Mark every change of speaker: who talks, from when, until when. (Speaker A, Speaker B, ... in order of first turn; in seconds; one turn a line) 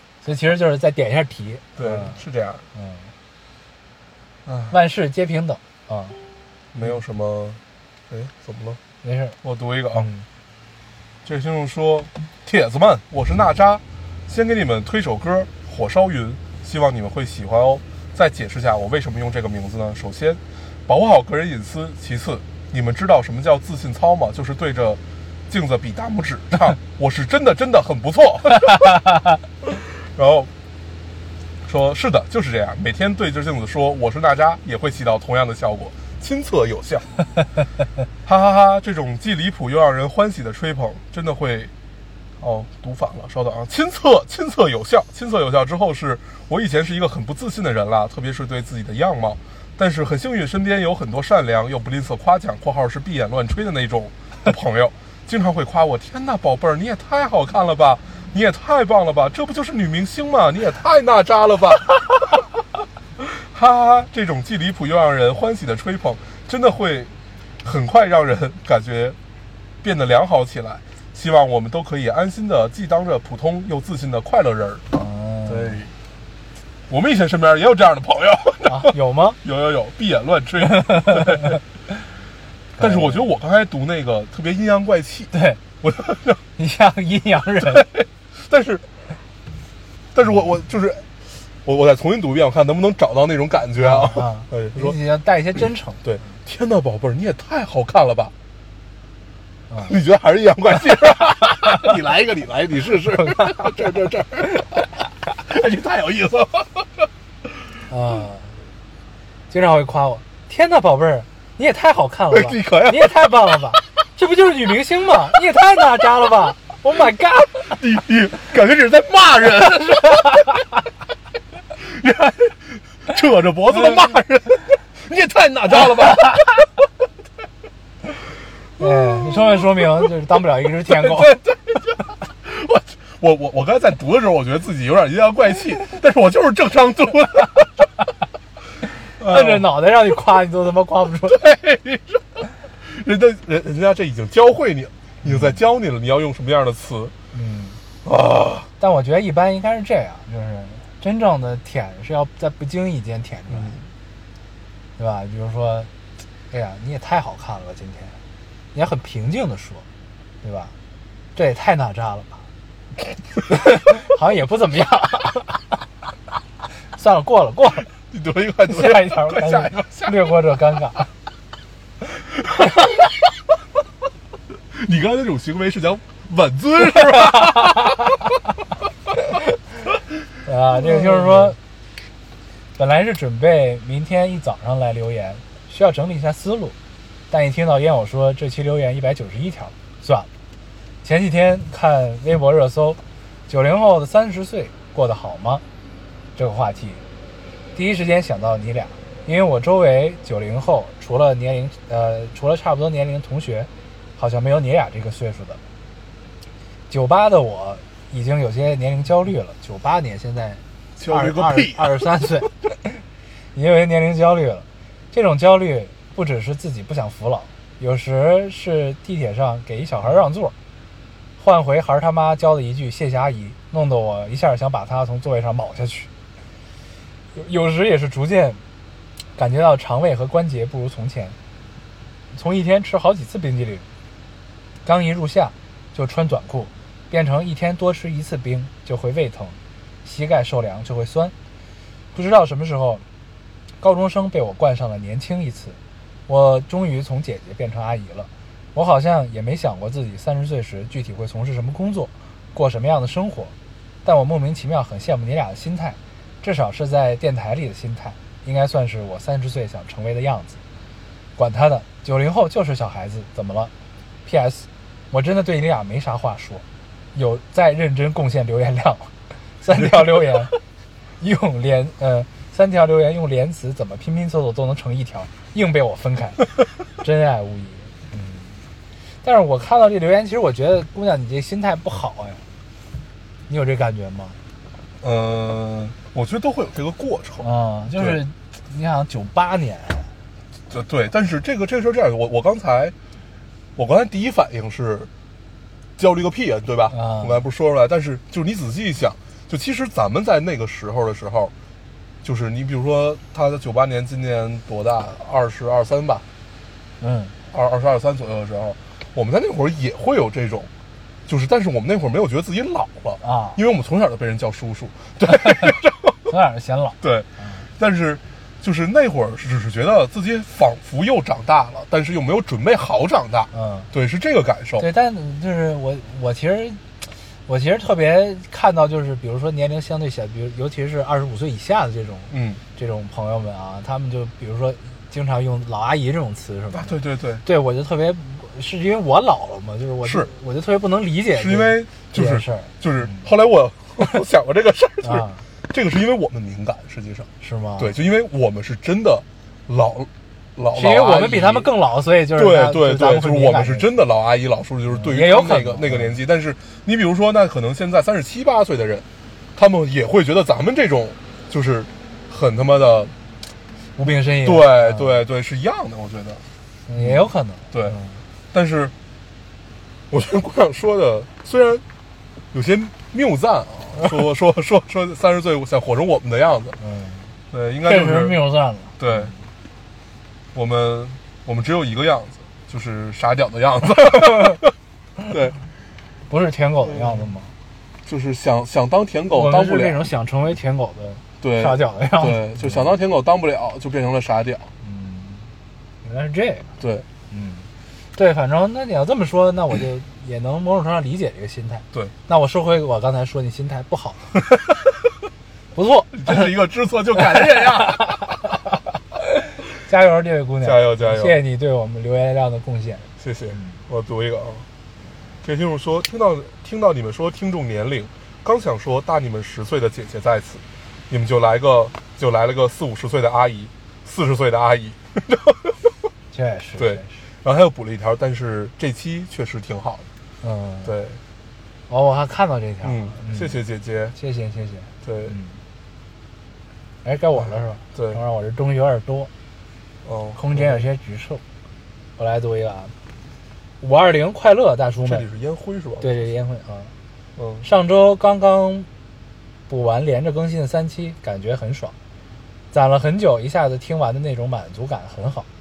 Speaker A: 0.2-2.2
Speaker B: 1.8-2.6
Speaker A: 2.7-3.1
Speaker B: 4.5-4.8
Speaker A: 4.7-6.2
Speaker B: 6.7-8.8
Speaker A: 9.0-9.3
Speaker B: 9.4-10.1
Speaker A: 9.9-10.2
Speaker B: 11.2-28.8
Speaker B: 29.6-30.5
Speaker B: 31.6-37.1
Speaker B: 38.2-41.7
Speaker B: 42.4-62.4
Speaker B: 63.2-67.1
Speaker B: 67.6-69.2
Speaker B: 69.8-74.8
Speaker A: 74.9-75.8
Speaker B: 75.5-75.9
Speaker B: 76.9-81.6
Speaker A: 78.7-79.4
Speaker A: 82.8-83.2
Speaker B: 82.8-86.4
Speaker A: 85.3-85.6
Speaker A: 86.6-87.9
Speaker B: 87.6-88.8
Speaker B: 90.1-91.1
Speaker B: 91.6-95.0
Speaker A: 93.8-96.0
Speaker B: 96.0-98.3
Speaker B: 99.8-104.9
Speaker A: 103.1-103.9
Speaker B: 105.4-107.1
Speaker A: 107.9-108.6
Speaker A: 109.5-117.8
Speaker B: 112.3-113.8
Speaker B: 117.7-120.5
Speaker B: 121.8-126.7
Speaker A: 128.8-131.4
Speaker B: 128.8-129.6
Speaker B: 130.9-137.9
Speaker B: 139.2-139.7
Speaker A: 139.2-141.4
Speaker B: 141.3-147.1
Speaker A: 145.2-145.5
Speaker A: 147.3-147.8
Speaker B: 148.0-148.7
Speaker A: 148.8-153.8
Speaker B: 153.5-153.8
Speaker A: 155.0-155.9
Speaker A: 156.5-158.2
Speaker A: 158.7-159.8
Speaker A: 160.4-160.7
Speaker A: 161.3-162.4
Speaker A: 163.5-165.6
Speaker A: 166.9-167.9
Speaker B: 168.1-170.2
Speaker A: 168.7-171.1
Speaker B: 174.7-178.1
Speaker A: 177.3-177.8
Speaker A: 180.4-181.6
Speaker B: 180.8-181.5
Speaker A: 182.8-186.7
Speaker A: 187.3-190.3
Speaker A: 191.0-195.6
Speaker A: 196.3-197.0
Speaker A: 197.7-205.6
Speaker A: 206.9-212.5
Speaker B: 211.0-211.9
Speaker A: 213.5-220.5
Speaker A: 221.4-226.1
Speaker A: 227.3-228.6
Speaker A: 229.3-231.3
Speaker A: 232.3-233.8
Speaker A: 234.8-241.3
Speaker A: 242.1-243.0
Speaker A: 243.8-260.6
Speaker A: 261.4-263.7
Speaker A: 264.2-270.6
Speaker A: 271.2-278.6
Speaker A: 279.2-282.4
Speaker A: 283.5-284.4
Speaker B: 285.0-288.2
Speaker A: 287.4-290.1
Speaker B: 290.7-292.9
Speaker B: 293.8-295.1
Speaker B: 296.0-301.5
Speaker A: 296.9-297.4
Speaker B: 302.2-306.2
Speaker A: 307.0-307.3
Speaker B: 307.5-310.7
Speaker B: 311.3-316.2
Speaker A: 313.2-313.6
Speaker A: 315.3-315.7
Speaker A: 316.3-317.6
Speaker B: 317.0-324.9
Speaker A: 323.5-323.9
Speaker A: 324.8-326.8
Speaker A: 327.5-343.2
Speaker B: 332.3-332.6
Speaker B: 336.7-337.4
Speaker B: 340.0-340.3
Speaker B: 341.3-351.7
Speaker A: 345.0-345.4
Speaker A: 347.4-347.9
Speaker A: 350.7-353.9
Speaker B: 352.3-363.1
Speaker A: 354.9-356.2
Speaker A: 364.0-365.2
Speaker B: 364.4-366.4
Speaker A: 366.9-368.2
Speaker B: 367.0-368.0
Speaker B: 368.5-368.9
Speaker B: 370.1-371.8
Speaker B: 372.5-376.8
Speaker A: 376.8-377.3
Speaker B: 377.5-378.4
Speaker A: 377.8-379.0
Speaker B: 379.0-379.3
Speaker B: 380.5-384.7
Speaker A: 384.3-384.6
Speaker B: 385.3-385.6
Speaker A: 386.3-387.5
Speaker B: 388.1-390.0
Speaker A: 389.3-392.9
Speaker B: 391.4-394.7
Speaker A: 394.8-395.5
Speaker A: 396.0-396.7
Speaker B: 396.8-397.1
Speaker A: 397.3-404.3
Speaker A: 405.7-406.5
Speaker B: 406.1-408.4
Speaker A: 407.5-408.2
Speaker A: 409.8-413.8
Speaker B: 410.6-411.4
Speaker B: 413.2-414.7
Speaker B: 415.4-425.9
Speaker A: 426.3-427.1
Speaker B: 426.8-430.1
Speaker A: 430.4-430.9
Speaker B: 430.8-431.2
Speaker A: 431.9-433.6
Speaker B: 432.8-434.1
Speaker A: 434.1-435.6
Speaker B: 435.0-435.3
Speaker A: 437.0-439.3
Speaker B: 437.9-438.2
Speaker B: 440.0-440.8
Speaker A: 440.4-441.4
Speaker A: 442.2-442.9
Speaker A: 443.8-445.2
Speaker B: 445.0-446.1
Speaker A: 446.0-446.9
Speaker B: 447.4-447.6
Speaker A: 447.6-448.9
Speaker A: 449.7-451.9
Speaker A: 452.7-455.5